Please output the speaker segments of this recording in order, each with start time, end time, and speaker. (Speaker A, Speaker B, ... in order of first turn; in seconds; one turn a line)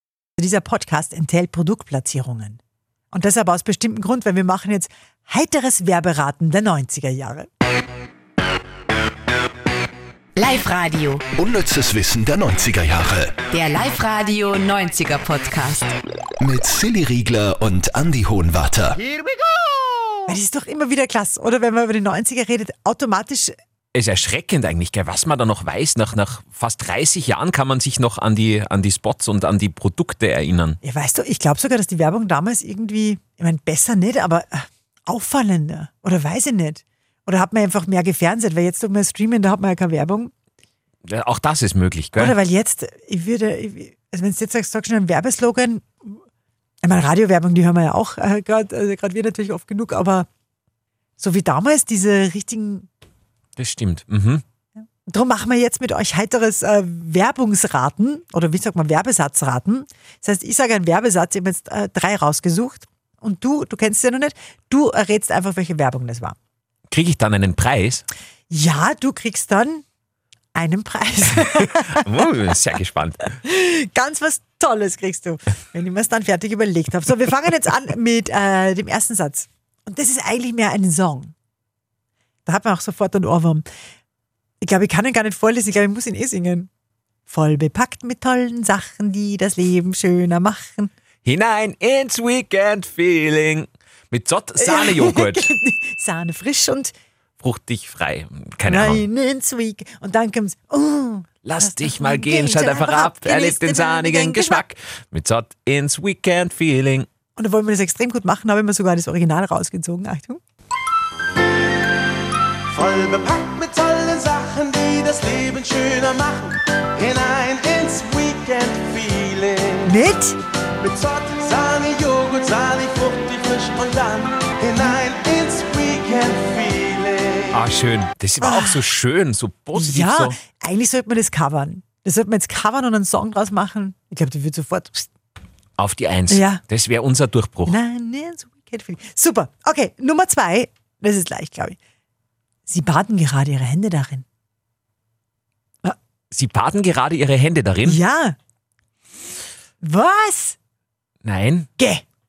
Speaker A: 0.4-2.6
Speaker A: 3.1-7.5
Speaker B: 10.4-11.2
Speaker C: 11.4-13.4
Speaker B: 13.5-15.9
Speaker C: 16.4-19.0
Speaker A: 20.3-23.6
Speaker D: 23.9-30.8
Speaker A: 30.8-40.3
Speaker D: 41.1-42.4
Speaker A: 42.2-46.2
Speaker A: 46.8-50.3
Speaker A: 51.2-52.9
Speaker D: 53.6-54.4
Speaker A: 55.1-66.4
Speaker D: 66.9-68.0
Speaker A: 68.5-69.8
Speaker A: 70.5-72.0
Speaker D: 71.4-73.3
Speaker A: 73.4-81.3
Speaker A: 82.5-83.7
Speaker A: 84.6-86.7
Speaker A: 87.3-90.9
Speaker D: 91.2-95.5
Speaker A: 94.6-96.9
Speaker D: 97.4-99.1
Speaker A: 98.7-104.6
Speaker D: 101.5-107.1
Speaker A: 107.4-110.4
Speaker E: 112.7-120.1
Speaker A: 119.8-120.4
Speaker E: 120.8-127.5
Speaker D: 127.5-130.4
Speaker A: 128.4-128.8
Speaker A: 129.8-135.1
Speaker D: 135.8-137.8
Speaker A: 136.3-136.6
Speaker A: 137.7-141.8
Speaker A: 142.7-144.2
Speaker D: 146.3-148.0
Speaker A: 147.8-148.4
Speaker A: 149.8-150.6
Speaker D: 151.2-151.7
Speaker A: 151.8-152.0